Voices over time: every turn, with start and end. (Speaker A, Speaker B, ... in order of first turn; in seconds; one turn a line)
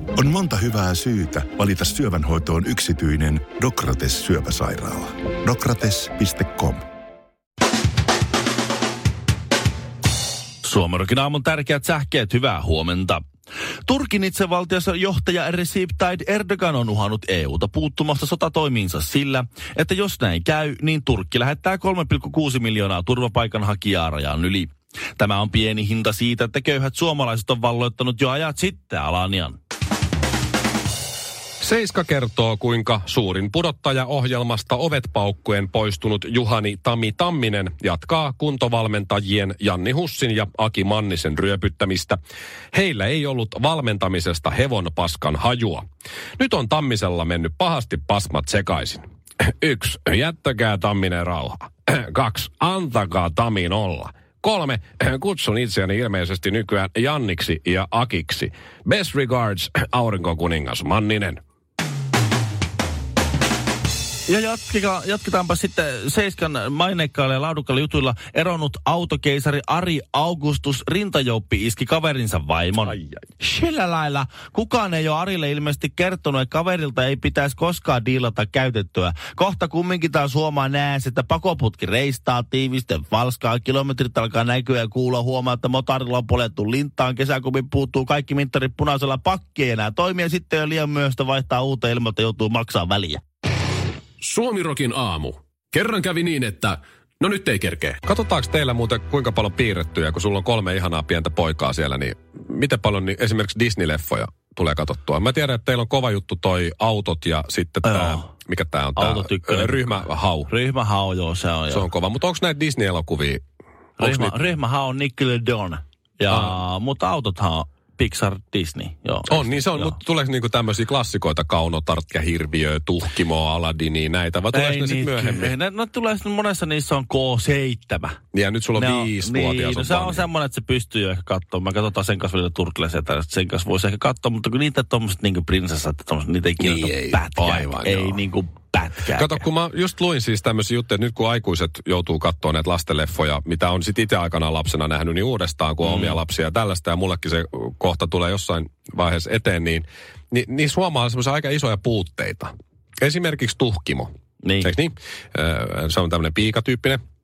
Speaker A: 0.2-6.8
Speaker B: 10.6-13.2
Speaker B: 13.9-29.6
Speaker C: 31.6-42.2
Speaker C: 42.7-45.8
Speaker C: 46.4-61.4
Speaker B: 64.2-93.2
Speaker C: 72.9-73.2
Speaker D: 94.2-98.0
Speaker C: 98.0-110.5
Speaker B: 107.8-108.3
Speaker B: 109.0-111.9
Speaker C: 111.7-113.4
Speaker C: 114.0-114.4
Speaker B: 114.0-120.0
Speaker C: 116.3-116.6
Speaker C: 119.3-125.5
Speaker B: 124.5-128.2
Speaker C: 128.3-130.3
Speaker B: 128.8-139.4
Speaker C: 136.6-138.2
Speaker C: 139.1-154.1
Speaker B: 145.8-146.2
Speaker B: 154.4-154.7
Speaker C: 154.6-157.0